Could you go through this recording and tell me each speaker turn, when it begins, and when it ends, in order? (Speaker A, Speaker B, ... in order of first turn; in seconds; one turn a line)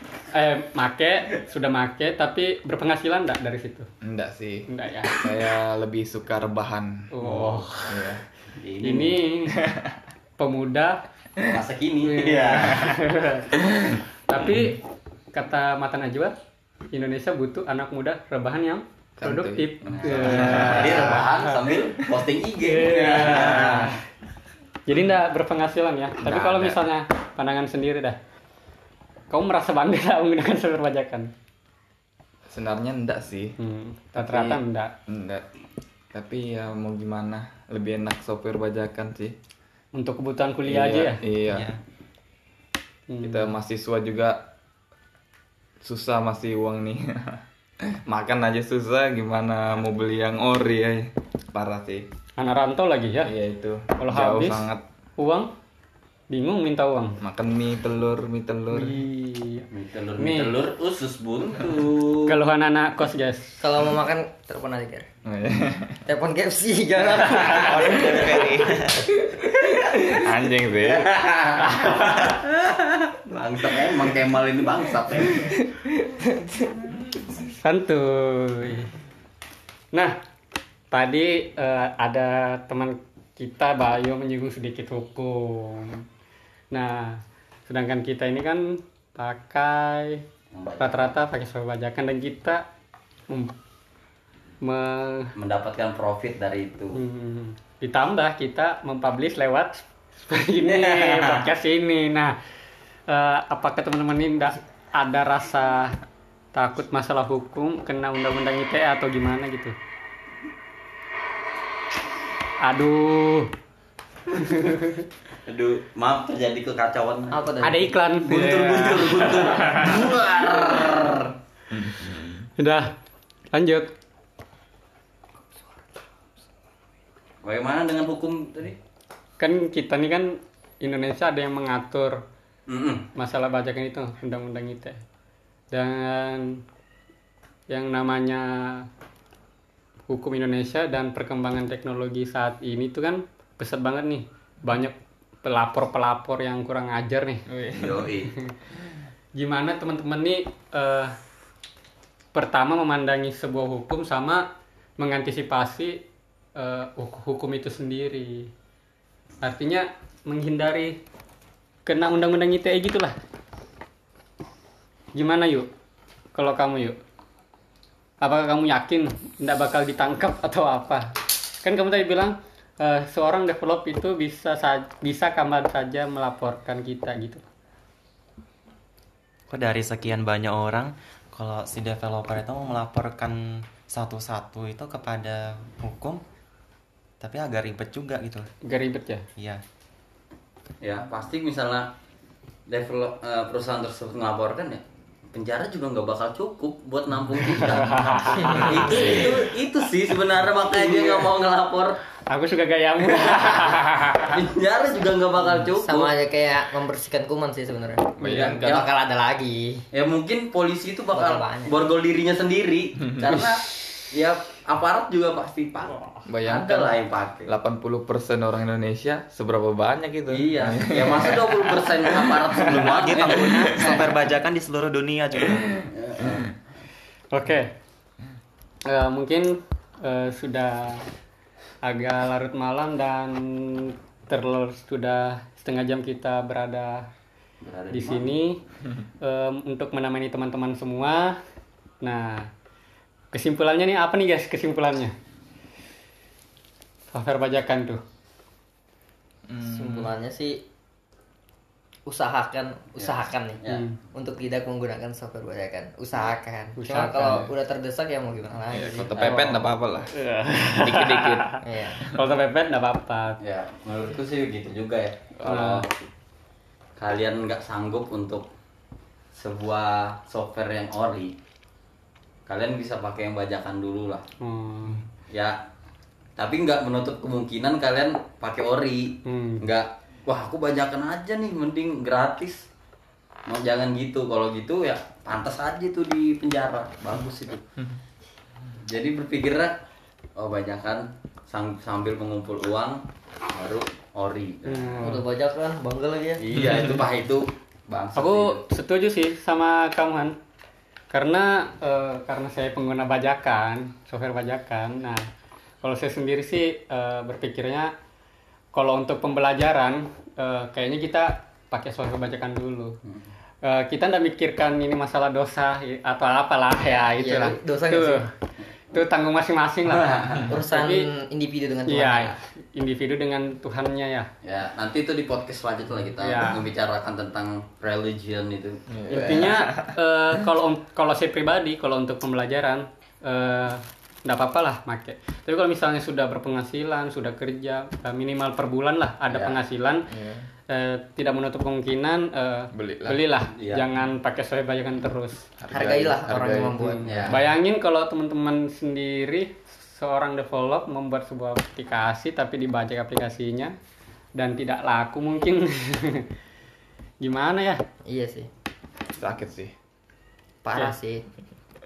Speaker A: 0.3-3.9
Speaker B: 4.0-8.2
Speaker A: 4.7-5.2
Speaker A: 7.1-8.1
Speaker C: 8.6-9.2
Speaker A: 8.8-9.6
Speaker B: 9.5-10.0
Speaker A: 10.4-11.0
Speaker C: 11.5-12.9
Speaker A: 12.0-13.5
Speaker A: 14.3-14.8
Speaker A: 15.3-16.3
Speaker A: 16.9-21.6
Speaker B: 19.2-21.3
Speaker C: 19.9-24.0
Speaker A: 22.6-24.0
Speaker B: 23.6-23.9
Speaker A: 24.9-28.2
Speaker B: 26.2-26.9
Speaker A: 29.3-31.3
Speaker B: 32.5-33.6
Speaker A: 33.6-34.9
Speaker B: 34.1-35.5
Speaker B: 36.1-39.4
Speaker A: 40.0-41.2
Speaker B: 40.7-41.7
Speaker D: 41.5-41.8
Speaker A: 43.1-43.6
Speaker B: 43.2-44.5
Speaker B: 45.8-47.4
Speaker B: 48.1-52.1
Speaker A: 52.4-53.3
Speaker B: 53.2-54.8
Speaker A: 54.0-55.5
Speaker A: 56.3-57.2
Speaker B: 57.2-59.0
Speaker A: 58.7-59.7
Speaker C: 59.7-62.4
Speaker A: 60.2-60.6
Speaker A: 62.3-63.6
Speaker E: 63.6-65.1
Speaker B: 65.2-66.1
Speaker E: 66.1-68.5
Speaker C: 67.4-67.8
Speaker B: 67.4-71.2
Speaker D: 67.8-69.1
Speaker C: 70.8-75.5
Speaker A: 71.7-72.3
Speaker E: 75.5-76.9
Speaker A: 77.6-78.9
Speaker A: 80.9-86.0
Speaker A: 86.7-90.2
Speaker C: 90.5-91.1
Speaker A: 90.8-92.7
Speaker A: 93.3-93.5
Speaker A: 94.6-95.3
Speaker C: 95.4-97.0
Speaker A: 97.0-102.4
Speaker C: 100.7-101.5
Speaker A: 103.1-106.0
Speaker A: 106.5-109.8
Speaker A: 112.6-113.5
Speaker A: 114.3-115.0
Speaker C: 115.5-117.4
Speaker E: 117.3-117.9
Speaker A: 117.6-120.0
Speaker C: 118.3-121.3
Speaker B: 121.7-122.5
Speaker A: 122.6-122.9
Speaker A: 123.5-123.9
Speaker C: 127.4-128.8
Speaker A: 129.4-132.2
Speaker C: 132.7-133.1
Speaker A: 133.2-135.0
Speaker A: 135.7-136.6
Speaker A: 137.7-138.9
Speaker A: 140.1-147.4
Speaker B: 147.5-148.1
Speaker C: 147.8-148.3
Speaker A: 149.3-151.2
Speaker A: 152.3-154.5
Speaker A: 155.0-156.0
Speaker A: 156.6-158.5
Speaker A: 159.4-161.0
Speaker A: 161.9-163.2
Speaker A: 165.1-165.7
Speaker A: 166.3-167.0
Speaker A: 168.2-177.5
Speaker D: 179.5-186.2
Speaker D: 187.2-188.5
Speaker A: 188.6-189.2
Speaker D: 189.4-189.6
Speaker C: 190.8-191.9
Speaker C: 192.7-194.8
Speaker C: 195.3-202.0
Speaker A: 197.6-199.3
Speaker E: 198.4-199.2
Speaker B: 198.8-199.4
Speaker E: 200.7-201.3
Speaker A: 202.3-204.4
Speaker C: 204.3-206.1
Speaker E: 205.8-209.8
Speaker B: 208.2-208.7
Speaker C: 208.3-208.9
Speaker C: 209.9-217.5
Speaker E: 211.1-211.7
Speaker B: 216.3-222.7
Speaker C: 220.3-223.9
Speaker D: 222.7-225.7
Speaker B: 223.5-223.8
Speaker B: 225.6-225.9
Speaker C: 225.9-226.5
Speaker A: 227.3-227.7
Speaker A: 228.9-231.1
Speaker A: 231.8-237.1
Speaker C: 237.6-238.3
Speaker A: 237.9-238.6
Speaker A: 239.2-241.4
Speaker A: 242.0-242.5
Speaker A: 243.3-245.1
Speaker A: 247.1-248.0
Speaker B: 249.5-250.1
Speaker E: 249.6-250.6
Speaker E: 252.1-253.6
Speaker C: 252.9-253.8
Speaker A: 253.7-254.0
Speaker E: 254.1-259.5
Speaker A: 256.8-257.5
Speaker B: 257.1-257.5
Speaker B: 258.7-260.1
Speaker C: 259.1-259.7
Speaker A: 260.1-263.4
Speaker B: 260.7-262.2
Speaker E: 261.6-262.0
Speaker C: 263.4-265.9
Speaker A: 265.4-265.8
Speaker C: 267.0-268.4
Speaker C: 269.3-271.4
Speaker C: 272.5-274.2
Speaker A: 274.4-275.0
Speaker C: 275.3-275.6
Speaker C: 276.4-282.7
Speaker A: 279.2-279.6
Speaker C: 283.5-287.6
Speaker C: 288.8-289.8
Speaker C: 290.4-295.0
Speaker A: 294.6-295.2
Speaker E: 295.0-296.4
Speaker C: 296.4-298.6
Speaker B: 296.6-297.0
Speaker A: 298.1-300.4
Speaker A: 301.1-305.3
Speaker A: 305.8-307.9
Speaker A: 308.7-313.0
Speaker A: 313.6-318.3
Speaker E: 317.2-318.2
Speaker A: 318.9-321.1
Speaker C: 319.9-320.5
Speaker E: 320.5-322.4
Speaker A: 321.9-324.3
Speaker C: 324.4-328.8
Speaker A: 326.2-326.6
Speaker B: 328.9-330.0
Speaker A: 329.1-340.1
Speaker C: 339.3-339.6
Speaker B: 340.1-340.5
Speaker A: 340.7-345.4
Speaker B: 342.7-343.2
Speaker C: 343.6-343.9
Speaker B: 345.6-347.3
Speaker E: 345.7-347.1
Speaker A: 346.8-353.8
Speaker C: 347.0-347.4
Speaker A: 354.4-356.2
Speaker A: 357.2-357.8
Speaker E: 358.1-358.5
Speaker B: 359.2-359.7
Speaker E: 360.6-361.2